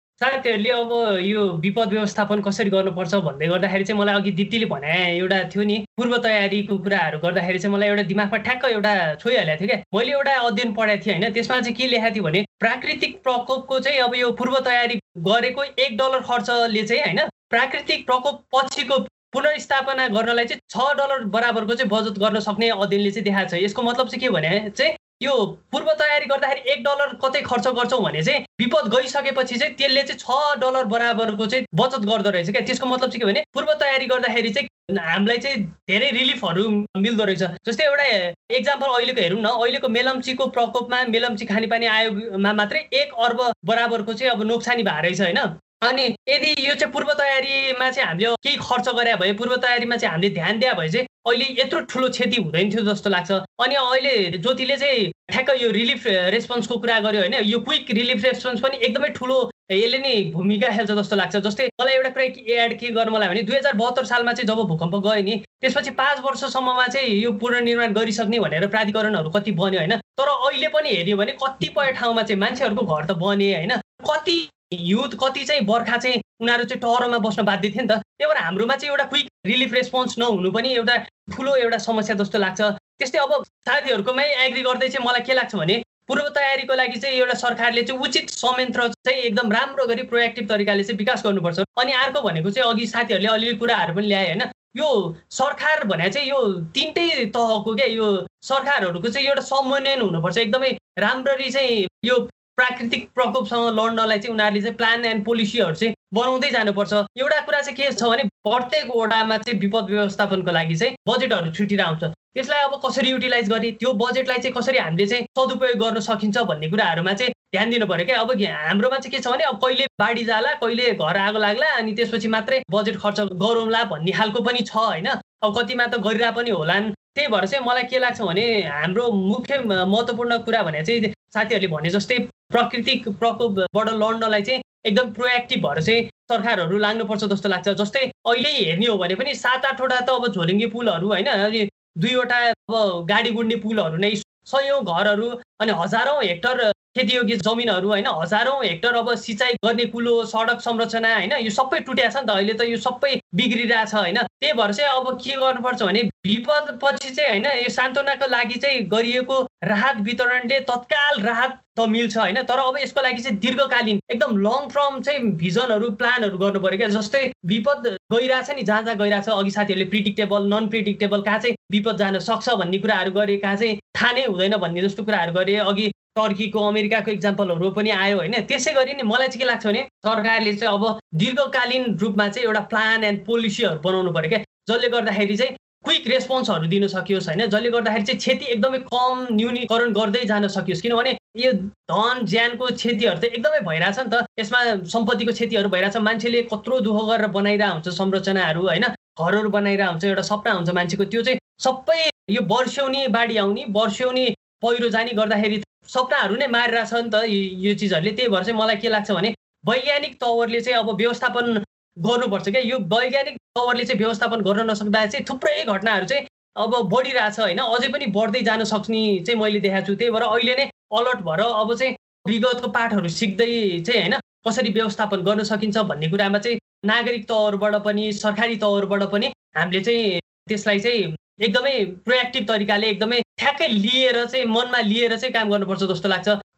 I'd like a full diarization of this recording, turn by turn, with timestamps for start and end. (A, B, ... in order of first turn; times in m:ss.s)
0:00.2-3:56.4 A